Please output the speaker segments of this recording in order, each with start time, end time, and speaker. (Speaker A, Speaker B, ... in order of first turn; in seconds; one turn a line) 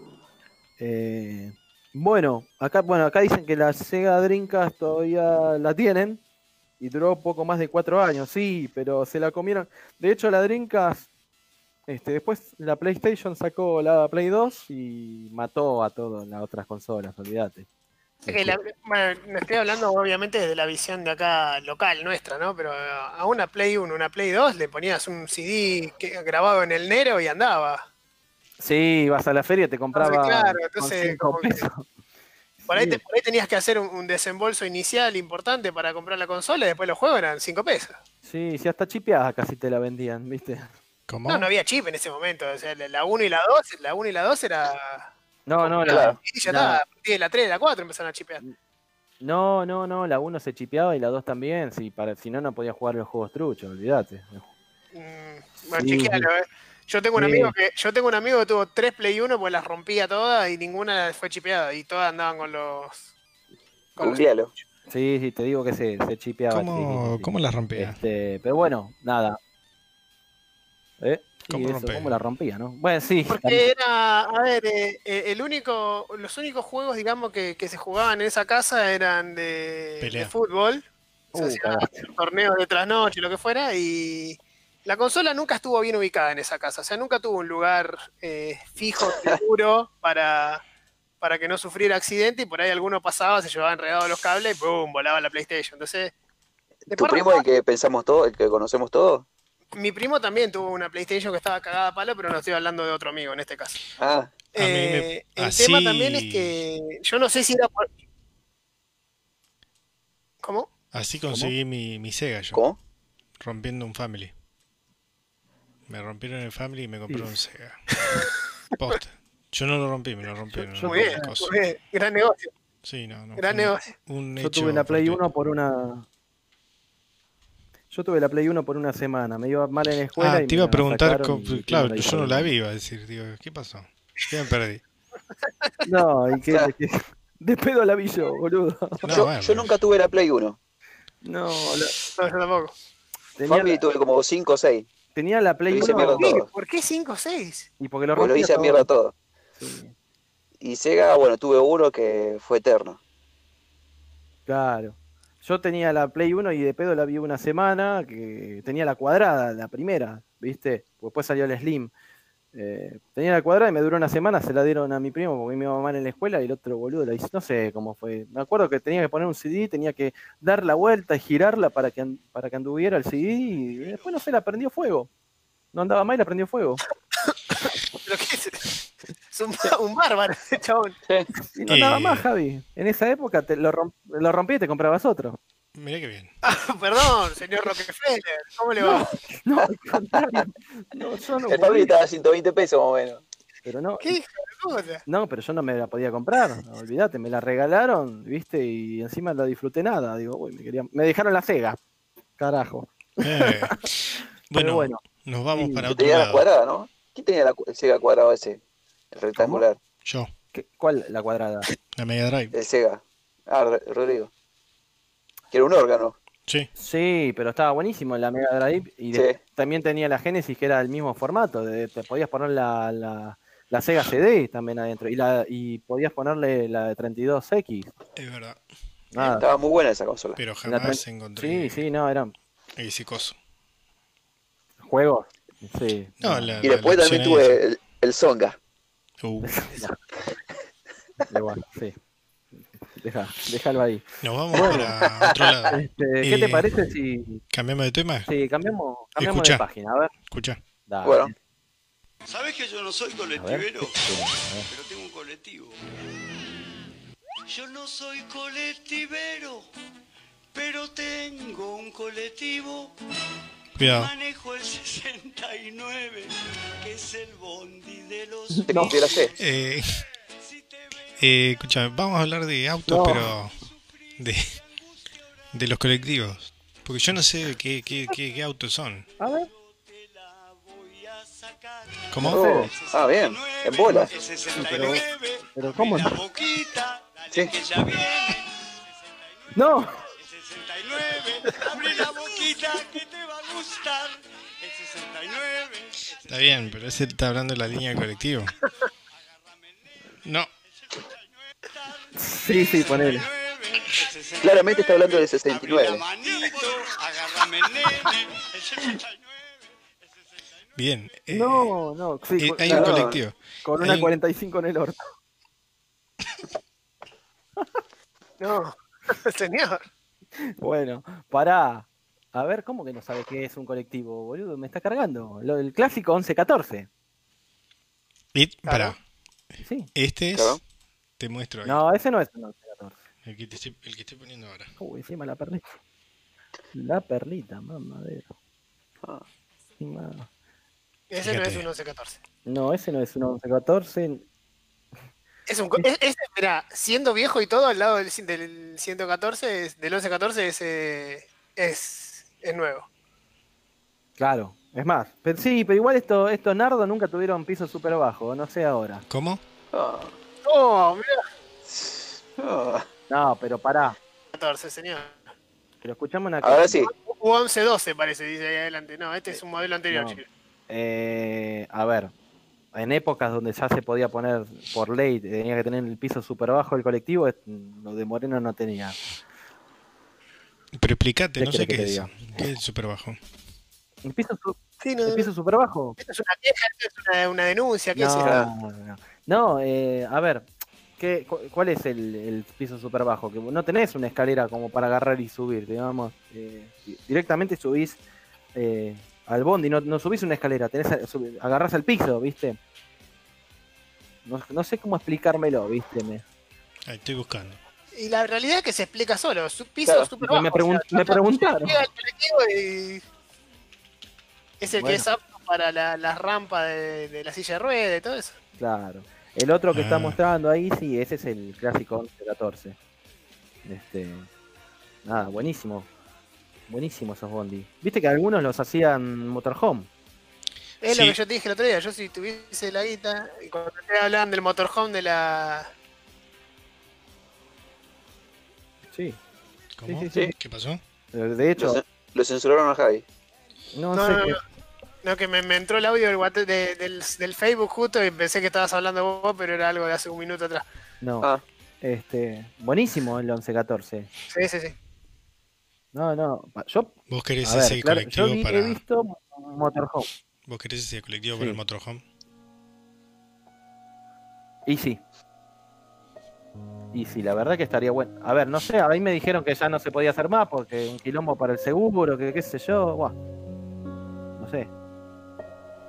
Speaker A: 0.8-6.2
Speaker A: 6.8-11.1
Speaker A: 11.9-17.6
Speaker A: 18.2-18.6
Speaker B: 18.3-27.8
Speaker A: 28.6-31.9
Speaker B: 29.9-31.7
Speaker A: 32.7-33.0
Speaker B: 32.7-38.0
Speaker A: 38.2-40.7
Speaker C: 41.1-41.5
Speaker B: 41.2-45.1
Speaker A: 45.5-46.8
Speaker B: 45.6-48.4
Speaker D: 45.9-46.2
Speaker A: 49.2-54.5
Speaker B: 54.9-63.1
Speaker A: 55.7-56.3
Speaker A: 57.1-57.5
Speaker B: 64.0-64.2
Speaker D: 64.0-64.5
Speaker A: 64.9-69.4
Speaker C: 66.5-68.0
Speaker A: 71.0-73.7
Speaker C: 71.5-72.2
Speaker B: 73.3-90.6
Speaker C: 80.0-80.3
Speaker A: 81.3-82.0
Speaker B: 91.2-96.1
Speaker D: 96.9-99.2
Speaker B: 96.9-97.4
Speaker B: 99.7-103.8
Speaker D: 104.0-104.3
Speaker B: 104.5-107.9
Speaker C: 104.6-106.5
Speaker B: 110.4-110.7
Speaker C: 110.9-112.6
Speaker D: 112.5-112.8
Speaker C: 113.4-114.3
Speaker C: 115.9-117.8
Speaker C: 118.7-121.5
Speaker A: 120.7-121.3
Speaker B: 120.8-122.5
Speaker C: 122.8-125.2
Speaker B: 123.4-123.9
Speaker A: 124.4-126.1
Speaker A: 127.9-132.5
Speaker C: 130.2-134.8
Speaker A: 135.8-139.2
Speaker C: 139.0-139.7
Speaker D: 139.1-140.6
Speaker A: 141.2-141.9
Speaker B: 142.2-142.7
Speaker A: 143.4-143.8
Speaker D: 143.4-144.9
Speaker A: 145.1-146.4
Speaker D: 145.7-146.5
Speaker B: 146.2-147.7
Speaker A: 147.8-148.9
Speaker D: 148.1-149.1
Speaker A: 149.6-149.9
Speaker D: 150.6-153.0
Speaker A: 154.5-161.9
Speaker A: 162.5-175.1
Speaker A: 175.7-176.8
Speaker B: 177.3-178.7
Speaker B: 179.3-181.0
Speaker A: 181.5-185.4
Speaker C: 181.7-182.2
Speaker C: 185.7-186.3
Speaker B: 186.4-189.1
Speaker A: 189.3-192.0
Speaker D: 191.5-193.2
Speaker A: 193.6-194.2
Speaker B: 194.0-195.0
Speaker A: 195.1-201.8
Speaker A: 202.4-203.8
Speaker C: 203.2-206.4
Speaker A: 204.5-205.9
Speaker D: 205.9-208.6
Speaker D: 209.1-209.8
Speaker A: 209.4-209.6
Speaker C: 210.0-210.3
Speaker A: 210.5-211.7
Speaker C: 211.9-212.5
Speaker D: 212.5-214.3
Speaker D: 215.5-216.2
Speaker A: 216.8-227.9
Speaker D: 219.1-219.4
Speaker C: 228.2-228.6
Speaker A: 229.1-229.5
Speaker D: 229.2-230.4
Speaker C: 230.3-231.8
Speaker A: 230.6-232.3
Speaker C: 232.8-233.4
Speaker A: 234.8-236.6
Speaker C: 236.2-237.6
Speaker D: 236.6-238.6
Speaker C: 239.2-239.7
Speaker A: 239.4-240.0
Speaker A: 241.3-241.9
Speaker A: 242.6-244.9
Speaker C: 244.2-246.7
Speaker D: 245.2-245.5
Speaker A: 245.7-247.4
Speaker C: 247.5-248.3
Speaker A: 248.3-250.1
Speaker C: 249.2-249.6
Speaker C: 250.3-250.6
Speaker A: 250.9-251.3
Speaker D: 251.0-251.3
Speaker E: 252.2-255.8
Speaker A: 253.3-254.7
Speaker E: 257.5-259.7
Speaker E: 260.5-262.9
Speaker C: 263.8-264.1
Speaker E: 263.8-269.7
Speaker A: 268.5-269.0
Speaker D: 268.7-269.3
Speaker C: 269.4-269.9
Speaker E: 270.4-271.2
Speaker C: 271.2-273.6
Speaker A: 272.9-273.3
Speaker E: 273.6-275.1
Speaker C: 274.2-274.4
Speaker C: 275.5-279.1
Speaker A: 279.2-279.5
Speaker E: 279.2-297.1
Speaker C: 282.1-282.6
Speaker A: 282.2-282.7
Speaker D: 282.3-284.1
Speaker A: 283.9-285.0
Speaker A: 285.5-286.2
Speaker A: 289.5-290.0
Speaker C: 296.3-298.5
Speaker E: 298.6-300.0
Speaker C: 300.2-300.5
Speaker E: 300.8-310.7
Speaker A: 302.1-303.3
Speaker D: 304.4-306.0
Speaker C: 310.8-311.7
Speaker A: 311.3-314.9
Speaker C: 312.4-314.1
Speaker D: 312.6-313.2
Speaker B: 318.4-319.8
Speaker A: 320.6-326.9
Speaker C: 328.3-329.0
Speaker B: 328.6-328.9
Speaker A: 329.6-329.9
Speaker C: 329.9-330.6
Speaker D: 330.3-330.6
Speaker C: 331.2-331.8
Speaker A: 331.6-333.0
Speaker C: 333.2-334.7
Speaker A: 334.8-335.6
Speaker A: 336.7-338.3
Speaker A: 339.8-340.3
Speaker B: 341.1-342.2
Speaker C: 341.2-341.7
Speaker A: 342.4-344.2
Speaker B: 345.5-352.9
Speaker A: 354.2-359.0
Speaker C: 359.1-359.4
Speaker D: 359.7-360.1
Speaker B: 360.4-361.2
Speaker D: 361.6-362.9
Speaker A: 363.1-364.0
Speaker B: 364.3-365.3
Speaker A: 365.8-366.8
Speaker D: 366.4-366.9
Speaker B: 366.9-370.2
Speaker A: 369.9-372.1
Speaker A: 372.7-379.0
Speaker C: 380.7-383.2
Speaker A: 381.4-382.1
Speaker A: 384.0-386.0
Speaker B: 384.8-385.3
Speaker B: 386.0-388.4
Speaker A: 387.9-390.5
Speaker D: 388.2-388.5
Speaker A: 391.0-398.0
Speaker A: 398.5-402.6
Speaker A: 404.2-406.2
Speaker C: 406.9-407.6
Speaker B: 407.9-413.0
Speaker D: 409.8-410.1
Speaker A: 410.2-411.8
Speaker B: 414.6-418.4
Speaker A: 414.8-415.1
Speaker A: 418.6-422.8
Speaker C: 419.7-420.2
Speaker A: 423.6-424.3
Speaker A: 425.0-425.9
Speaker A: 426.7-429.9
Speaker B: 430.8-435.7
Speaker C: 430.9-431.2
Speaker A: 438.9-439.2
Speaker C: 439.8-440.8
Speaker A: 439.9-440.3
Speaker A: 441.1-441.8
Speaker D: 441.6-443.0
Speaker A: 443.7-444.4
Speaker B: 443.9-444.4
Speaker B: 445.0-450.6
Speaker A: 451.0-451.3
Speaker A: 451.8-454.1
Speaker B: 454.3-454.7
Speaker A: 455.9-460.1
Speaker C: 457.1-458.8
Speaker C: 460.4-462.0
Speaker A: 461.3-461.6
Speaker A: 464.6-465.0
Speaker A: 466.9-473.1
Speaker A: 474.4-474.7